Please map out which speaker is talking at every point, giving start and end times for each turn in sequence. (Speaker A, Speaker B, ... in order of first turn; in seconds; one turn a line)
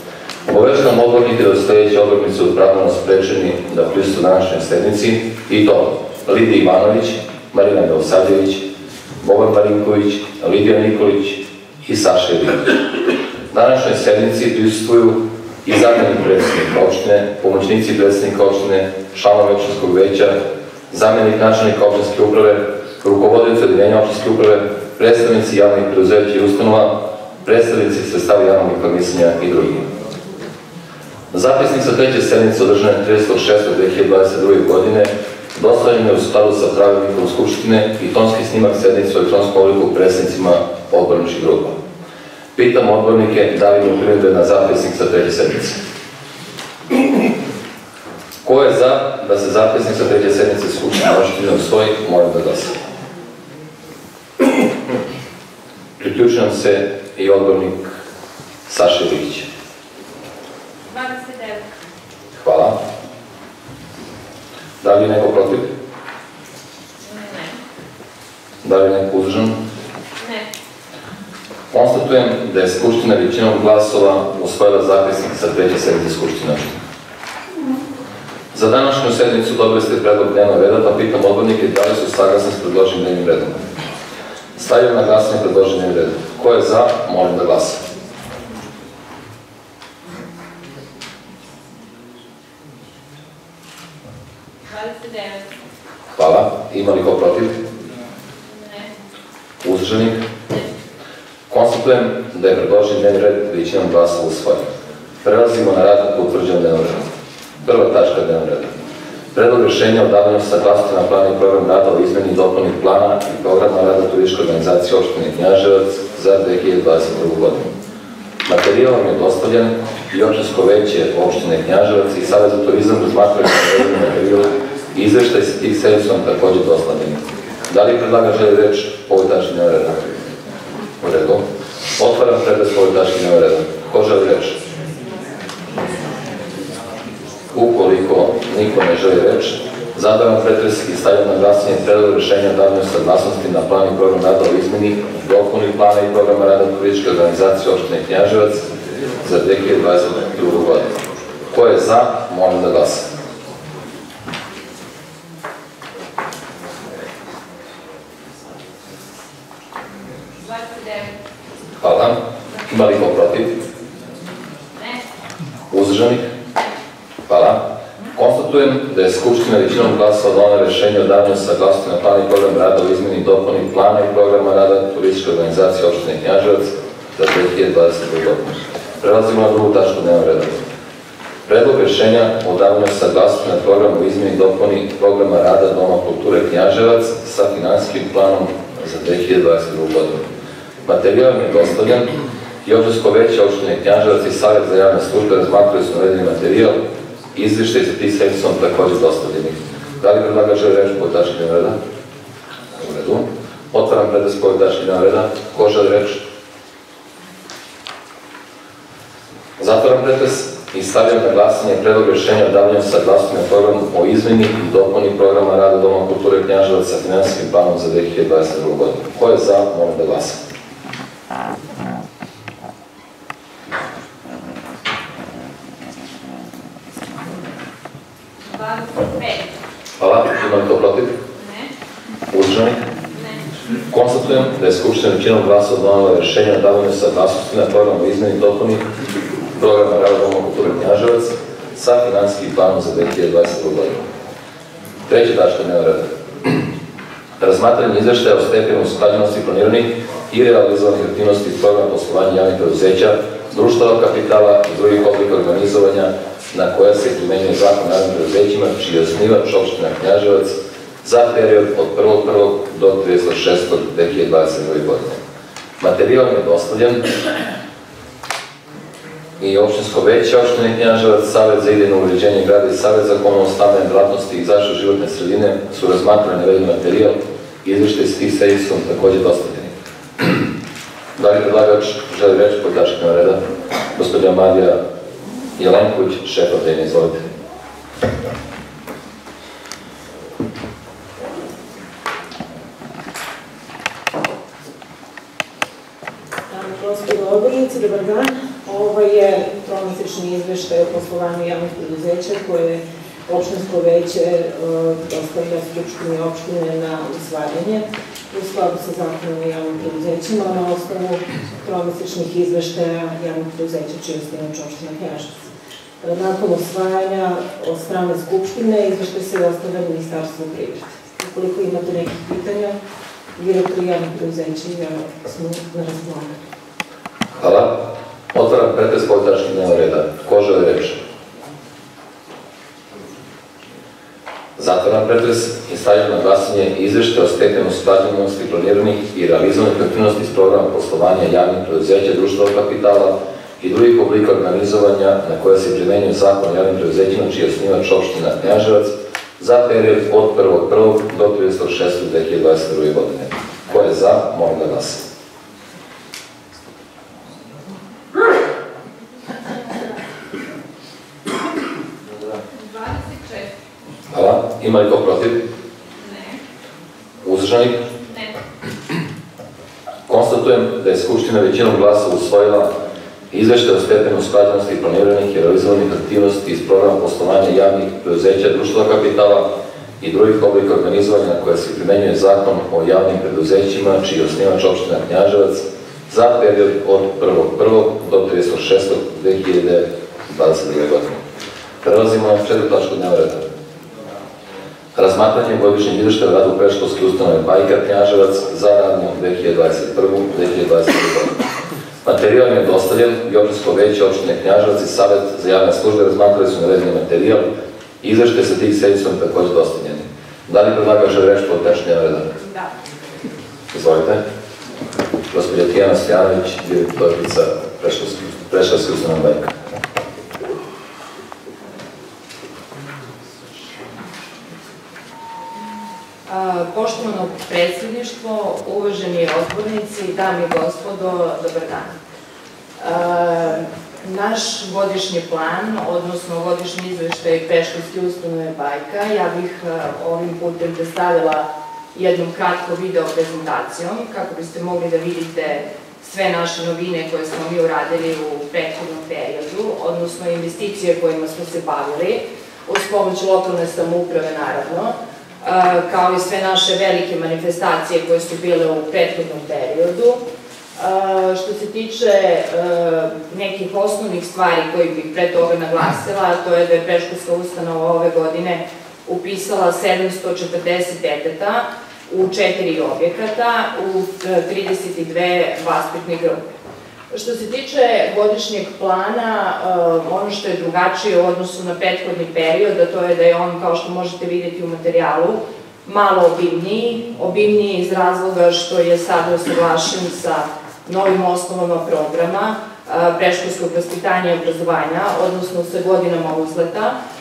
Speaker A: 0.4-8.7
Speaker A: 9.2-12.8
Speaker A: 13.5-29.9
Speaker A: 31.3-41.8
Speaker A: 42.5-45.8
Speaker A: 48.4-52.8
Speaker A: 56.0-57.9
Speaker A: 58.7-59.5
Speaker B: 60.9-61.6
Speaker A: 62.4-62.8
Speaker A: 64.8-65.7
Speaker B: 67.0-67.6
Speaker A: 68.6-69.6
Speaker A: 71.7-76.8
Speaker A: 78.5-83.6
Speaker A: 84.6-87.8
Speaker B: 94.7-95.5
Speaker A: 96.1-97.6
Speaker B: 98.5-98.9
Speaker A: 99.6-100.2
Speaker A: 101.5-104.7
Speaker A: 105.2-107.1
Speaker A: 107.6-108.7
Speaker A: 109.3-117.7
Speaker A: 118.5-130.1
Speaker A: 131.0-131.4
Speaker A: 132.0-134.6
Speaker A: 137.5-148.6
Speaker A: 149.2-151.0
Speaker A: 151.5-153.1
Speaker B: 160.5-161.1
Speaker A: 161.8-163.6
Speaker A: 165.7-166.3
Speaker A: 167.3-180.6
Speaker A: 181.4-190.3
Speaker A: 190.8-201.8
Speaker A: 202.8-206.2
Speaker A: 209.6-220.4
Speaker B: 228.6-229.4
Speaker A: 230.0-231.2
Speaker B: 231.4-231.7
Speaker A: 232.3-232.8
Speaker A: 233.9-238.8
Speaker A: 239.5-244.1
Speaker A: 245.1-246.6
Speaker A: 247.4-265.2
Speaker A: 265.8-267.1
Speaker A: 269.4-280.4
Speaker A: 281.2-283.4
Speaker A: 283.9-284.8
Speaker A: 285.6-287.2
Speaker C: 296.5-315.5
Speaker C: 316.0-322.8
Speaker C: 323.4-326.4
Speaker A: 327.4-331.0
Speaker A: 334.6-355.0
Speaker B: 362.6-363.5
Speaker A: 364.1-365.4
Speaker B: 366.0-366.4
Speaker A: 367.2-367.8
Speaker A: 370.1-372.7
Speaker A: 373.3-391.2
Speaker A: 391.8-393.4
Speaker A: 394.9-401.4
Speaker A: 402.0-407.5
Speaker A: 408.0-412.3
Speaker A: 413.7-414.2
Speaker A: 415.3-419.5
Speaker D: 426.3-431.9
Speaker D: 432.8-460.2
Speaker D: 460.8-476.5
Speaker D: 477.1-496.9